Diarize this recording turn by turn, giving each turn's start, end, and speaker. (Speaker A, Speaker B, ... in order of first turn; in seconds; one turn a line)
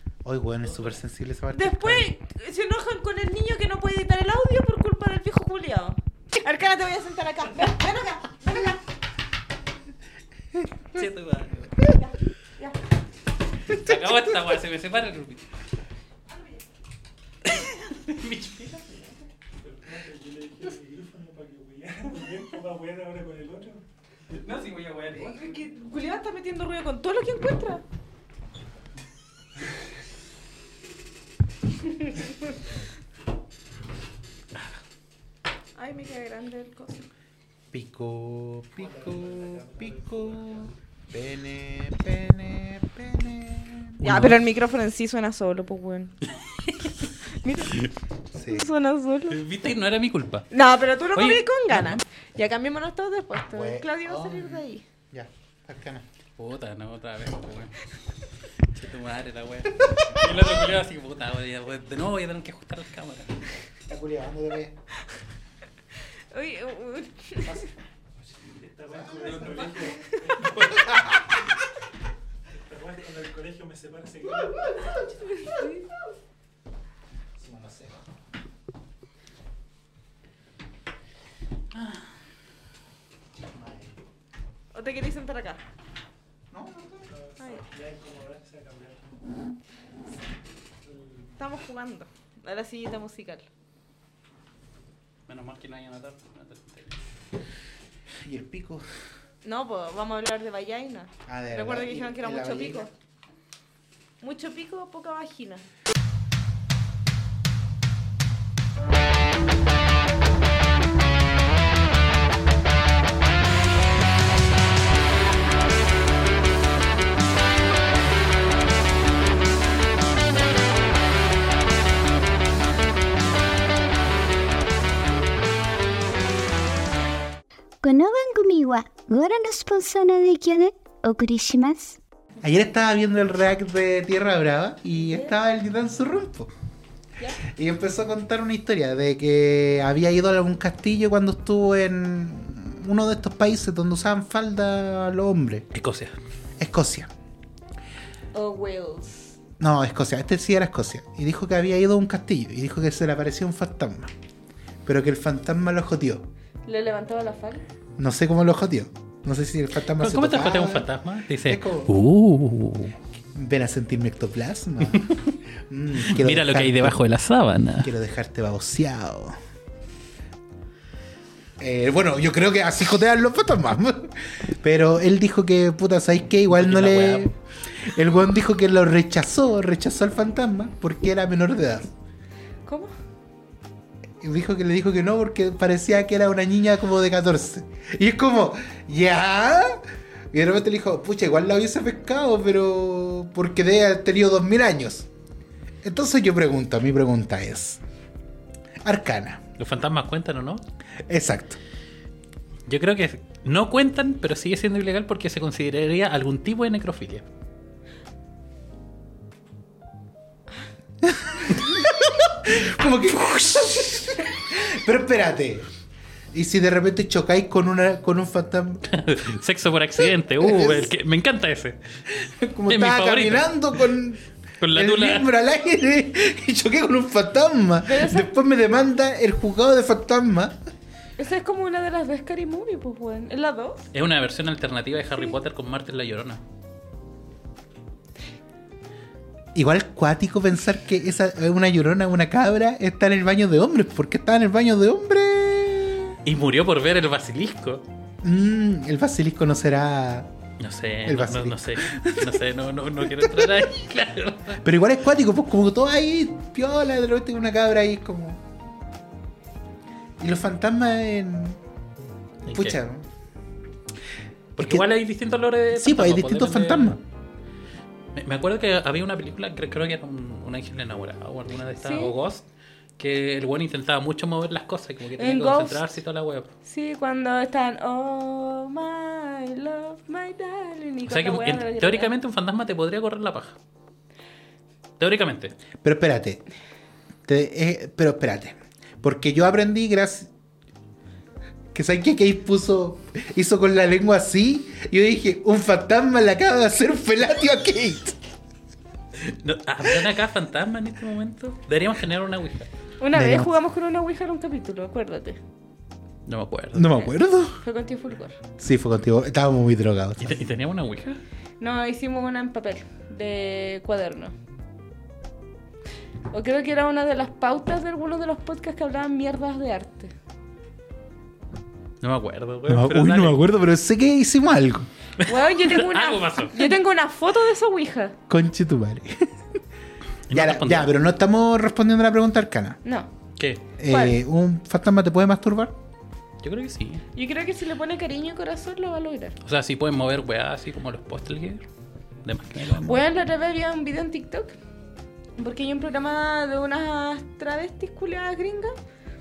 Speaker A: 0.2-2.1
Speaker B: 1.5-8.8
Speaker A: 10.5-11.0
Speaker C: 10.9-11.6
Speaker B: 11.8-12.7
Speaker C: 13.7-15.4
Speaker C: 17.4-19.0
Speaker D: 19.6-23.8
Speaker C: 24.4-25.4
Speaker B: 25.3-27.8
Speaker B: 35.8-37.0
Speaker A: 37.7-44.0
Speaker D: 38.8-40.7
Speaker B: 44.0-46.2
Speaker C: 44.0-44.4
Speaker B: 47.3-49.4
Speaker A: 48.3-48.6
Speaker C: 49.3-50.5
Speaker B: 50.5-54.8
Speaker C: 51.1-52.0
Speaker A: 53.5-56.0
Speaker C: 56.4-57.8
Speaker C: 58.7-63.3
Speaker A: 63.9-64.7
Speaker B: 66.3-67.7
Speaker D: 68.3-71.2
Speaker D: 72.5-75.0
Speaker B: 75.1-75.9
Speaker A: 77.4-78.0
Speaker C: 81.7-82.0
Speaker A: 83.4-83.9
Speaker B: 84.7-85.6
Speaker A: 86.5-87.1
Speaker D: 87.1-89.2
Speaker B: 87.4-87.6
Speaker D: 90.8-91.3
Speaker B: 91.4-93.5
Speaker C: 95.3-97.0
Speaker A: 98.2-98.8
Speaker B: 99.4-102.9
Speaker A: 101.2-102.8
Speaker B: 104.2-105.6
Speaker E: 127.8-132.0
Speaker A: 132.4-136.5
Speaker B: 135.0-135.3
Speaker A: 137.4-145.7
Speaker C: 145.7-146.2
Speaker A: 146.6-147.1
Speaker B: 148.3-149.3
Speaker A: 149.6-154.1
Speaker A: 154.8-156.3
Speaker B: 156.7-157.6
Speaker A: 158.0-160.9
Speaker C: 160.0-162.9
Speaker A: 161.4-161.9
Speaker A: 163.3-165.1
Speaker C: 164.9-165.2
Speaker A: 165.7-167.0
Speaker C: 166.0-167.9
Speaker A: 167.8-169.3
Speaker A: 171.6-177.3
Speaker C: 176.5-177.3
Speaker A: 177.8-181.9
Speaker B: 182.6-182.9
Speaker A: 184.2-195.1
Speaker A: 195.8-197.8
Speaker A: 198.8-199.4
Speaker C: 199.6-200.6
Speaker A: 201.1-201.6
Speaker C: 202.7-207.2
Speaker A: 211.0-215.7
Speaker A: 216.3-218.8
Speaker C: 218.9-223.6
Speaker A: 220.4-220.9
Speaker A: 222.4-230.6
Speaker C: 224.6-225.3
Speaker B: 227.8-228.3
Speaker B: 231.2-233.9
Speaker C: 233.9-236.4
Speaker A: 239.5-246.2
Speaker C: 246.2-247.8
Speaker A: 248.2-250.3
Speaker C: 250.6-254.6
Speaker A: 251.0-252.4
Speaker A: 253.2-253.7
Speaker A: 254.6-258.4
Speaker A: 260.2-261.6
Speaker C: 262.4-262.8
Speaker A: 262.5-263.1
Speaker C: 264.6-267.0
Speaker A: 264.6-264.9
Speaker A: 265.7-267.0
Speaker C: 268.1-272.4
Speaker B: 271.8-272.1
Speaker C: 273.0-276.5
Speaker B: 275.2-275.9
Speaker B: 276.6-282.1
Speaker C: 281.1-283.6
Speaker C: 285.0-285.5
Speaker A: 285.8-286.4
Speaker A: 287.2-290.3
Speaker A: 291.7-298.2
Speaker C: 299.2-302.7
Speaker B: 303.0-305.4
Speaker A: 303.1-303.6
Speaker C: 306.2-307.1
Speaker A: 306.7-307.6
Speaker B: 307.6-308.4
Speaker A: 308.6-310.4
Speaker C: 310.2-311.2
Speaker B: 311.6-314.3
Speaker B: 316.3-320.1
Speaker C: 322.0-323.4
Speaker A: 322.7-324.9
Speaker C: 325.2-326.6
Speaker B: 325.2-328.1
Speaker A: 328.3-329.3
Speaker C: 330.3-330.9
Speaker A: 330.3-332.8
Speaker B: 332.8-333.1
Speaker C: 333.4-333.6
Speaker A: 333.8-335.8
Speaker B: 333.9-334.2
Speaker C: 336.4-337.0
Speaker B: 337.1-339.4
Speaker C: 339.4-341.6
Speaker C: 342.2-343.0
Speaker B: 342.8-344.5
Speaker B: 345.4-348.7